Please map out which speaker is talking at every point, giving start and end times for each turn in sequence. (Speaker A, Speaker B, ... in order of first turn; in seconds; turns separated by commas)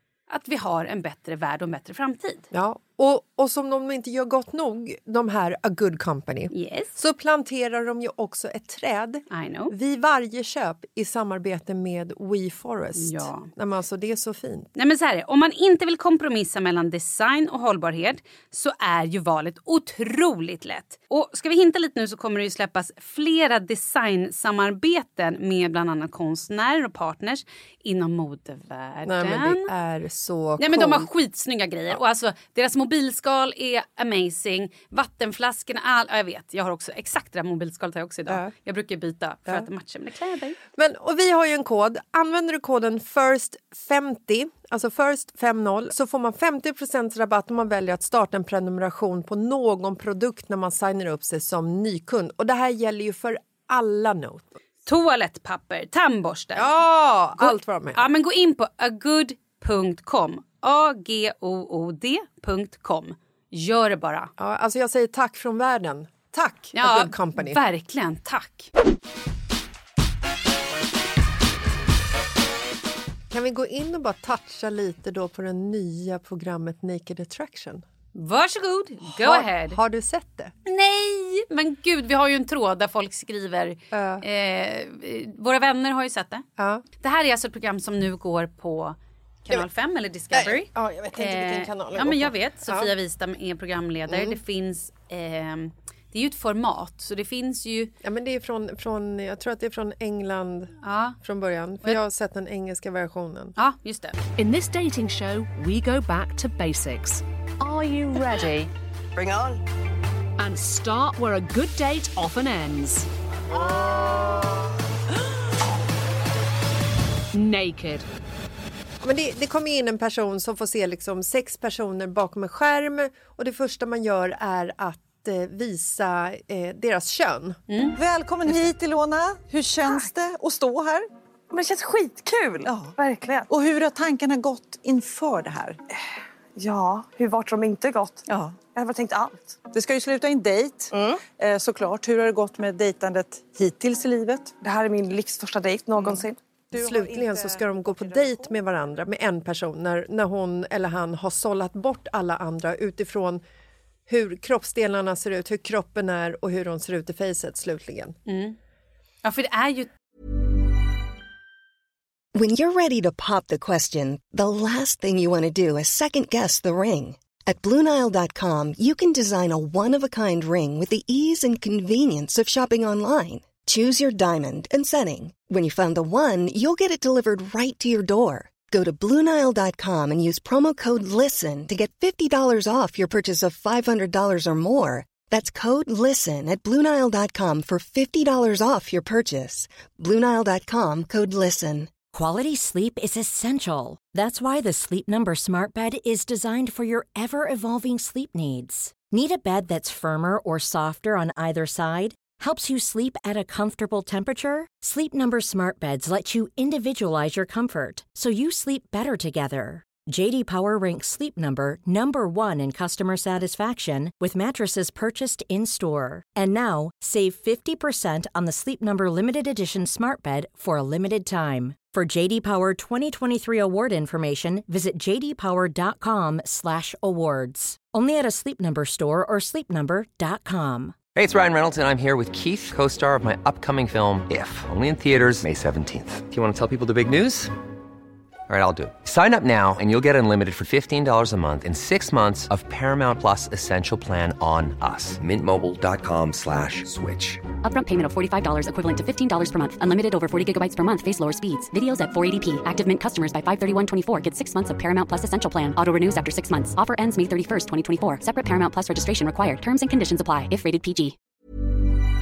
Speaker A: 0.3-2.5, Speaker B: 2.5-14.7, Speaker A: 6.5-7.0, Speaker A: 9.3-9.7, Speaker A: 13.0-13.5, Speaker A: 14.8-29.7, Speaker B: 29.1-31.1, Speaker A: 30.6-40.6, Speaker B: 38.3-38.5, Speaker B: 40.8-54.5, Speaker A: 54.9-56.8, Speaker B: 56.5-58.1, Speaker A: 57.4-64.3, Speaker B: 64.4-67.6, Speaker A: 66.8-68.7, Speaker B: 73.3-77.8, Speaker A: 78.1-79.8, Speaker B: 79.0-80.5, Speaker A: 80.7-86.5, Speaker B: 83.9-84.2, Speaker B: 86.6-86.8, Speaker A: 87.0-97.9, Speaker B: 90.3-92.9, Speaker B: 94.1-94.4, Speaker B: 98.0-103.5, Speaker A: 100.8-101.2, Speaker A: 103.6-104.2, Speaker C: 104.4-108.7, Speaker D: 109.2-109.5, Speaker C: 110.4-113.1, Speaker C: 117.3-118.1, Speaker B: 119.0-127.6, Speaker A: 127.7-128.0, Speaker E: 128.0-131.1, Speaker D: 131.5-133.5, Speaker E: 132.6-132.9, Speaker E: 133.5-135.8, Speaker D: 136.6-139.6, Speaker E: 138.3-138.6, Speaker E: 139.7-144.6, Speaker D: 140.9-141.2, Speaker D: 144.6-146.4, Speaker E: 146.7-147.4, Speaker B: 146.7-153.4, Speaker B: 154.1-158.2, Speaker A: 158.3-158.6, Speaker A: 159.2-159.9, Speaker F: 162.3-191.9, Speaker G: 192.1-230.9, Speaker H: 231.2-237.5, Speaker H: 238.5-247.4, Speaker I: 247.6-261.2